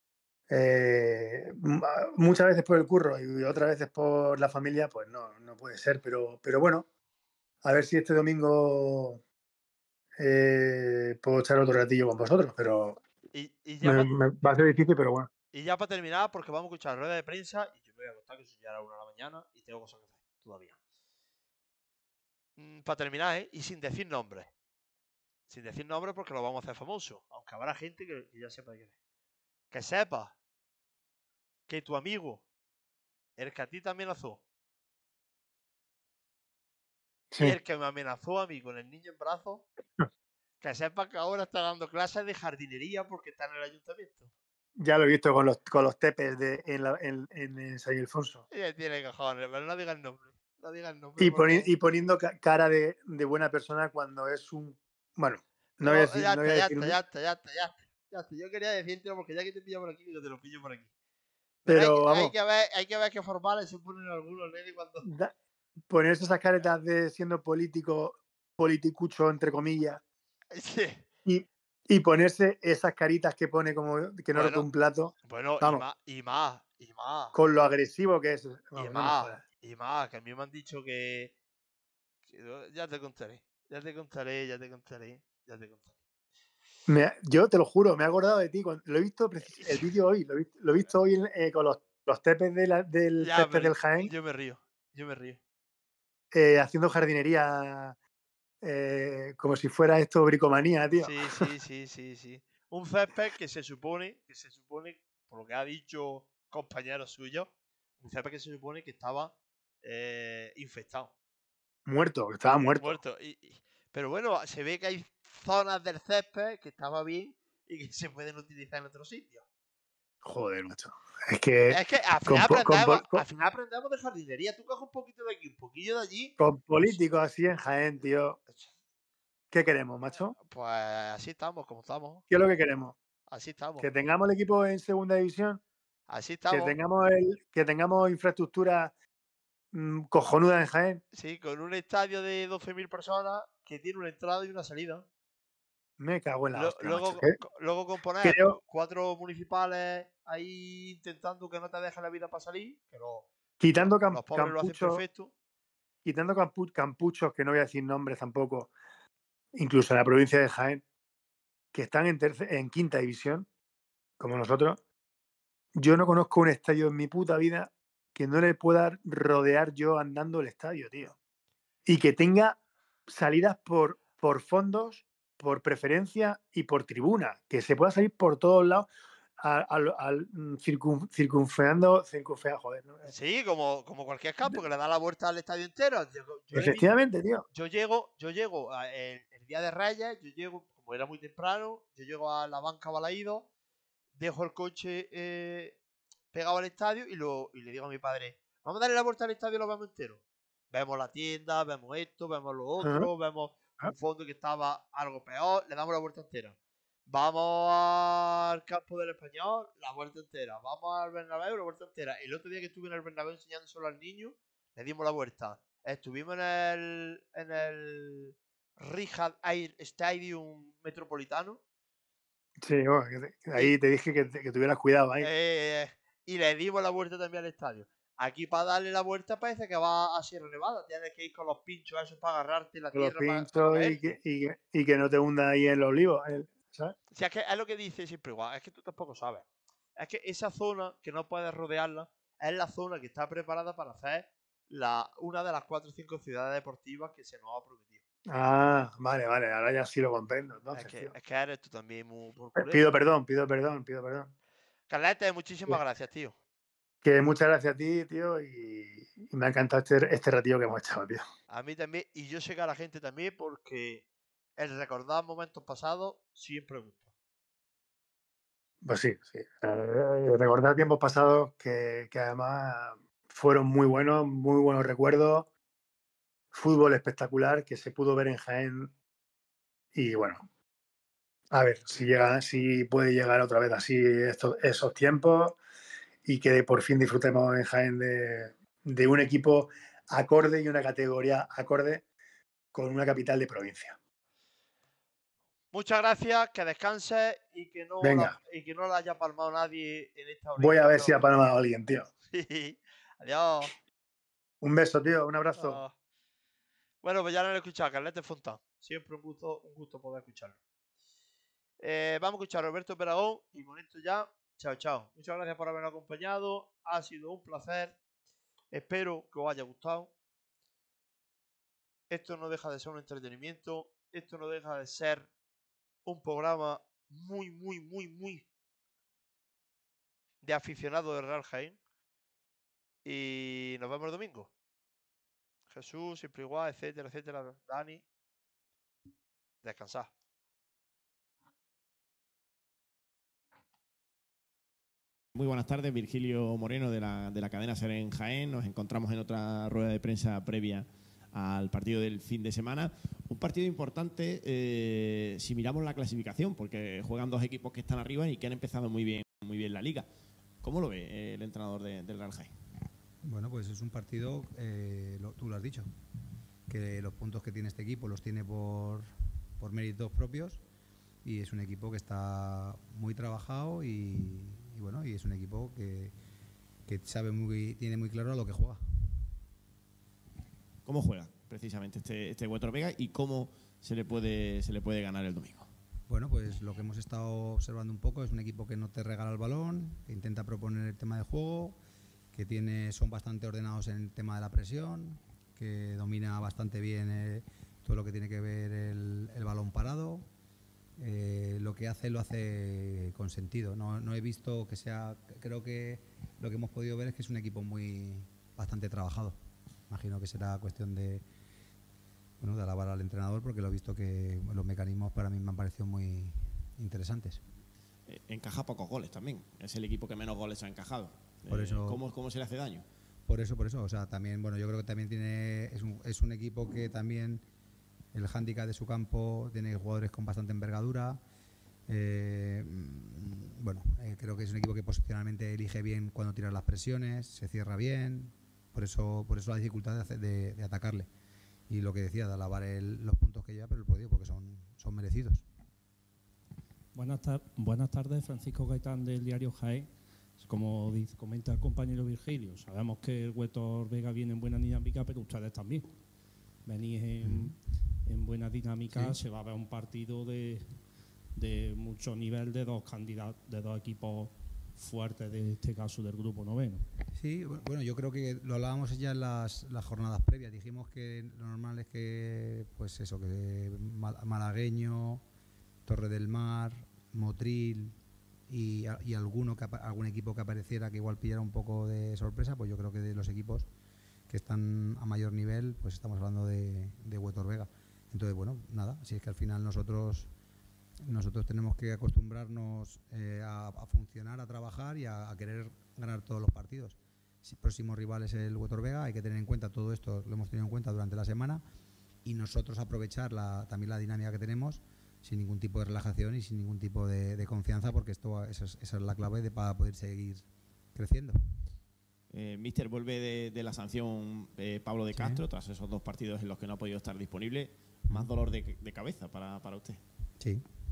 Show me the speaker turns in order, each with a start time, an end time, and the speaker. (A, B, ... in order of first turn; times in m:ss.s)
0:00.5-0:06.9 A
0:07.6-0:09.2 A
0:10.2-0:13.0 A
0:13.3-0:14.1 B
0:13.8-0:15.3 A
0:15.5-0:20.8 B
0:22.6-0:24.5 B
0:25.5-0:28.9 B
0:29.7-0:30.4 B
0:31.7-0:32.4 B
0:33.4-0:34.4 B
0:37.3-0:37.6 A
0:37.4-0:39.7 B
0:40.6-0:44.3 B
0:44.8-0:48.5 A
0:48.5-0:51.7 B
0:51.2-0:57.0 A
0:55.8-1:00.9 B
1:01.6-1:02.3 A
1:01.7-1:05.1 B
1:05.0-1:05.3 A
1:05.9-1:10.0 A
1:10.5-1:11.0 B
1:11.3-1:15.9 A
1:14.3-1:14.7 B
1:15.2-1:17.4 B
1:17.3-1:19.4 A
1:18.8-1:21.3 B
1:22.3-1:25.9 B
1:26.9-1:34.1 A
1:29.5-1:29.9 B
1:33.2-1:35.4 B
1:36.3-1:38.0 A
1:38.6-1:41.5 A
1:41.0-1:51.1 B
1:51.9-1:53.0 A
1:52.5-1:59.4 B
2:00.2-2:03.2 A
2:01.7-2:06.4 B
2:06.4-2:08.4 A
2:08.5-2:08.7 B
2:09.5-2:10.4 A
2:10.4-2:12.2 B
2:12.3-2:13.0 A
2:13.3-2:13.9 B
2:13.8-2:15.6 A
2:16.1-2:16.8 B
2:16.5-2:18.9 A
2:19.7-2:21.0 A
2:21.1-2:25.0 B
2:26.0-2:27.4 A
2:26.5-2:35.3 B
2:28.2-2:28.6 A
2:33.6-2:35.0 A
2:36.0-2:38.7 A
2:39.6-2:40.8 A
2:41.7-2:43.5 A
2:44.2-2:44.8 A
2:45.8-2:51.2 A
2:51.9-2:58.9 A
2:59.4-3:03.1 A
3:03.0-3:06.9 B
3:06.5-3:07.4 A
3:07.5-3:13.5 B
3:14.2-3:15.8 B
3:16.3-3:20.2 B
3:20.7-3:26.6 B
3:22.8-3:23.1 A
3:27.1-3:41.6 B
3:42.6-3:45.3 A
3:45.2-3:54.0 B
3:52.9-3:57.0 A
3:57.1-3:59.5 B
4:00.0-4:08.0 B
4:08.3-4:11.1 A
4:10.7-4:12.8 B
4:12.6-4:14.3 A
4:14.9-4:16.4 B
4:17.0-4:21.2 A
4:21.5-4:24.0 B
4:24.6-4:27.1 B
4:28.8-4:35.5 A
4:36.5-4:38.9 A
4:39.9-4:40.5 A
4:41.5-4:45.6 A
4:46.2-4:52.0 A
4:52.7-4:54.0 A
4:55.7-5:01.2 B
4:58.0-4:58.4 A
5:00.6-5:02.1 A
5:02.3-5:03.7 B
5:04.6-5:05.8 A
5:05.6-5:05.9 B
5:07.0-5:10.6 B
5:11.8-5:18.0 B
5:18.7-5:20.1 B
5:22.1-5:25.3 B
5:26.0-5:28.4 B
5:30.4-5:31.8 B
5:33.0-5:34.5 B
5:35.7-5:38.0 B
5:39.6-5:40.1 B
5:45.4-6:00.1 C
6:00.6-6:02.5 C
6:03.2-6:05.9 D
6:06.7-6:09.1 D
6:09.6-6:10.6 D
6:11.2-6:16.1 D
6:16.9-6:18.8 D
6:20.9-6:25.7 C
6:26.1-6:31.8 D
6:32.3-6:40.3 D
6:41.0-6:49.4 D
6:49.9-6:51.2 D
6:52.4-6:57.4 D
6:58.1-7:02.8 C
7:01.5-7:02.0 D
7:03.3-7:07.4 D
7:08.1-7:11.2 D
7:11.9-7:21.1 D
7:21.7-7:25.4 D
7:26.9-7:36.0 E
7:36.6-7:40.7 E
7:37.2-7:37.6 D
7:38.9-7:39.2 D
7:41.4-7:46.9 E
7:47.1-7:55.2 D
7:55.9-7:58.0 D
7:58.5-8:03.7 D
8:04.3-8:10.3 D
8:11.1-8:21.6 D
8:22.2-8:31.4 D
8:32.3-8:40.0 C
8:35.1-8:35.4 D
8:40.4-8:40.7 D